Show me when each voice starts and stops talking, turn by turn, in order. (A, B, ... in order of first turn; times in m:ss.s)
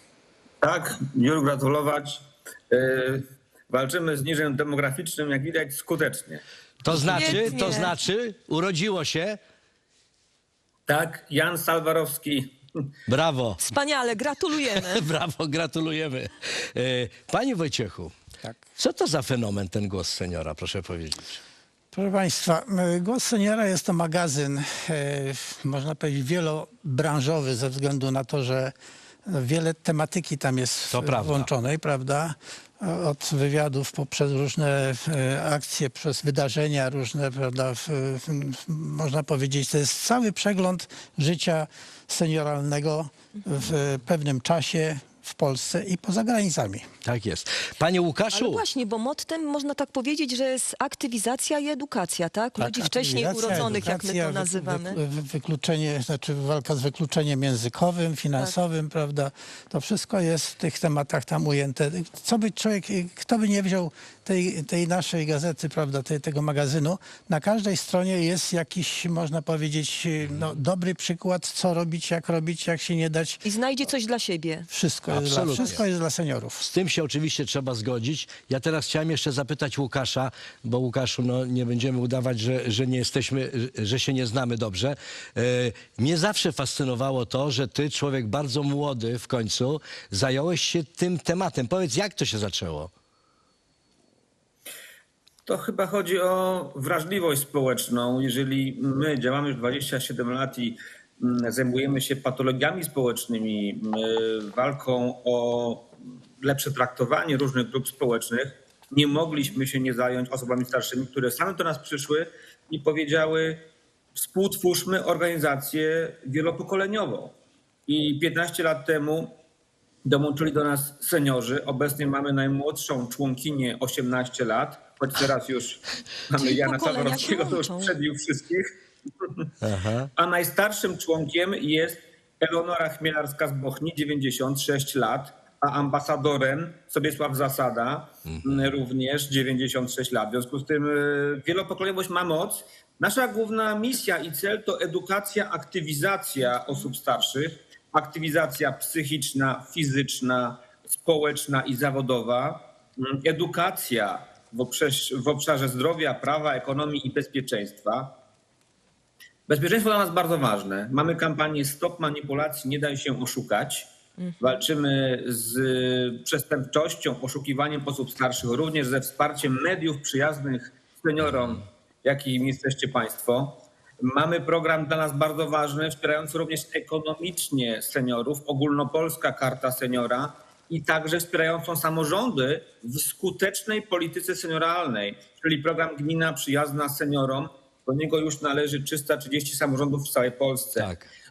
0:00.6-0:06.4 A
0:06.8-0:09.4 B
0:07.0-0:07.9 C
0:10.9-0:12.8 A
0:13.1-0:13.6 B
0:13.6-0:15.0 C
0:14.7-0:18.1 B
0:18.8-0:21.4 B
0:21.9-0:28.7 D
0:29.2-0:46.8 D
0:30.9-0:31.5 B
0:47.0-0:48.6 B
0:48.3-0:55.0 C
0:52.6-1:13.4 D
0:53.5-0:53.8 B
1:13.4-1:14.7 C
1:14.7-1:16.6 D
1:15.1-1:15.8 B
1:16.6-1:32.9 B
1:35.4-1:53.6 A
1:54.2-1:57.3 A
1:57.9-1:59.4 A
2:00.0-2:09.5 A
2:06.4-2:07.9 C
2:09.6-2:10.1 B
2:10.2-2:38.1 A
2:18.2-2:18.8 B
2:39.5-2:43.9 A
2:44.2-2:44.6 C
2:44.4-3:10.9 A
3:10.8-3:11.1 B